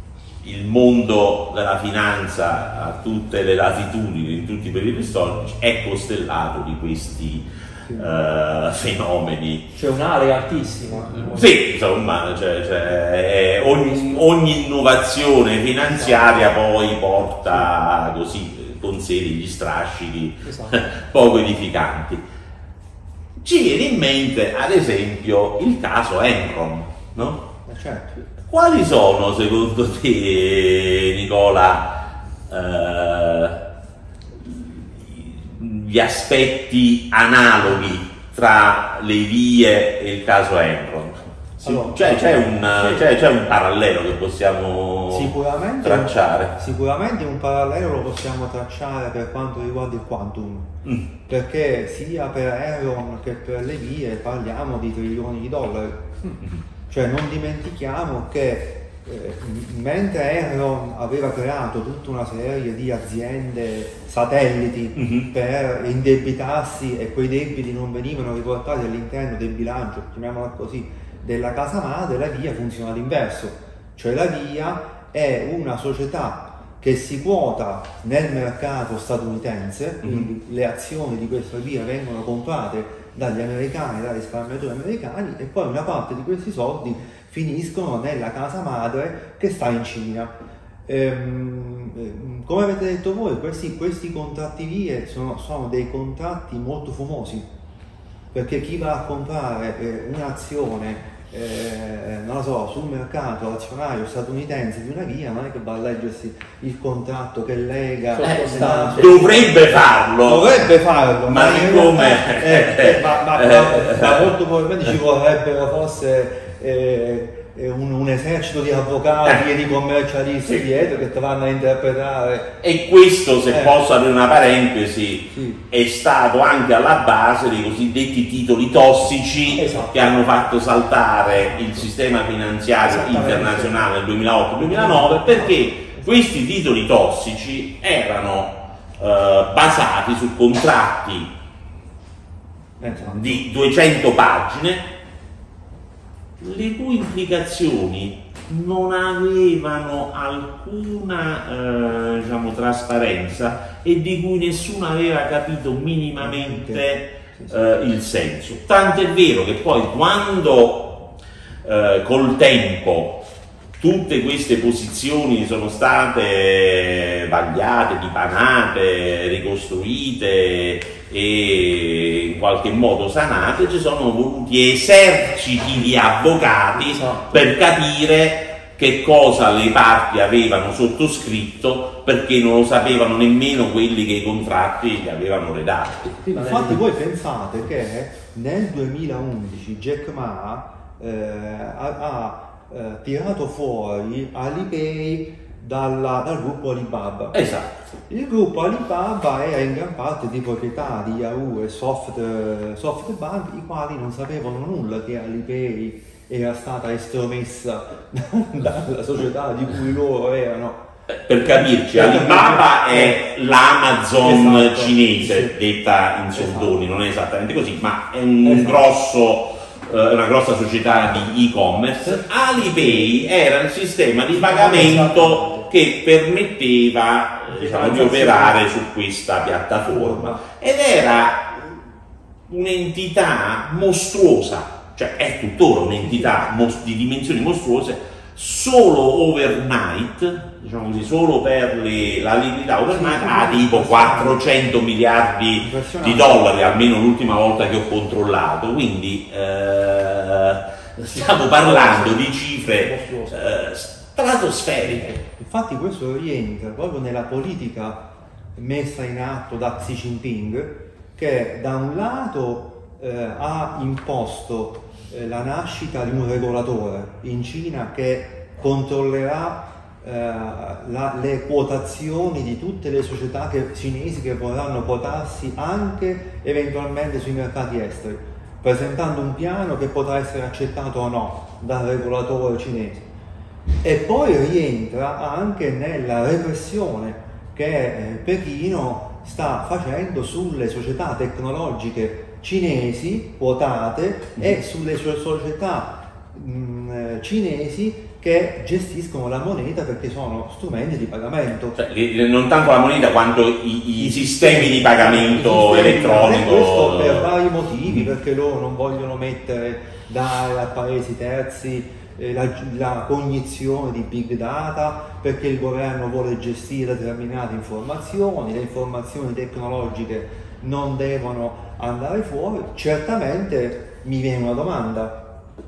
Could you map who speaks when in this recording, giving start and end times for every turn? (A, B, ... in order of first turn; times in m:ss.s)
0:00.4-0:09.7 A
0:09.8-0:11.6 B
0:11.2-0:22.2 A
0:13.6-0:14.2 B
0:15.9-0:16.4 B
0:20.4-0:20.8 B
0:23.4-0:27.5 A
0:27.6-0:28.2 C
0:28.4-0:33.6 A
0:34.4-0:46.6 A
0:41.6-0:43.0 C
0:45.1-0:50.7 C
0:51.2-0:56.2 C
0:56.9-1:30.3 C
1:05.0-1:05.3 A
1:20.0-1:20.3 A
1:30.9-1:37.5 C
1:38.3-1:49.6 C
1:48.1-1:49.4 B
1:48.2-1:50.7 A
1:50.2-2:02.5 C
1:51.2-1:54.2 A
2:02.6-2:21.3 A
2:03.5-2:03.8 C
2:05.3-2:05.6 C
2:09.5-2:10.2 B
2:12.8-2:13.9 C
2:14.6-2:15.6 C
2:22.8-2:23.4 C
2:22.8-2:24.9 A
2:26.4-2:41.1 A
2:36.2-2:36.8 C
2:41.6-2:43.2 A
2:43.8-3:06.2 A
2:56.8-2:57.4 B
3:06.2-3:06.8 B
3:06.3-3:17.4 C
3:17.3-3:17.8 A
3:18.1-3:30.8 C
3:31.1-3:51.8 A
3:31.4-3:33.2 C
3:34.2-3:35.5 C
3:36.4-3:36.8 C
3:38.4-3:38.9 C
3:42.0-3:43.1 C
3:44.3-3:45.7 C
3:47.5-3:48.6 C
3:49.9-3:50.4 C
3:52.5-4:15.2 A
3:56.0-3:56.4 C
4:02.9-4:04.4 C
4:05.6-4:06.5 C
4:11.2-4:13.3 B
4:15.1-4:18.0 C
4:18.6-4:43.1 C
4:43.8-5:01.8 C
5:01.8-5:07.3 A
5:04.0-5:25.2 C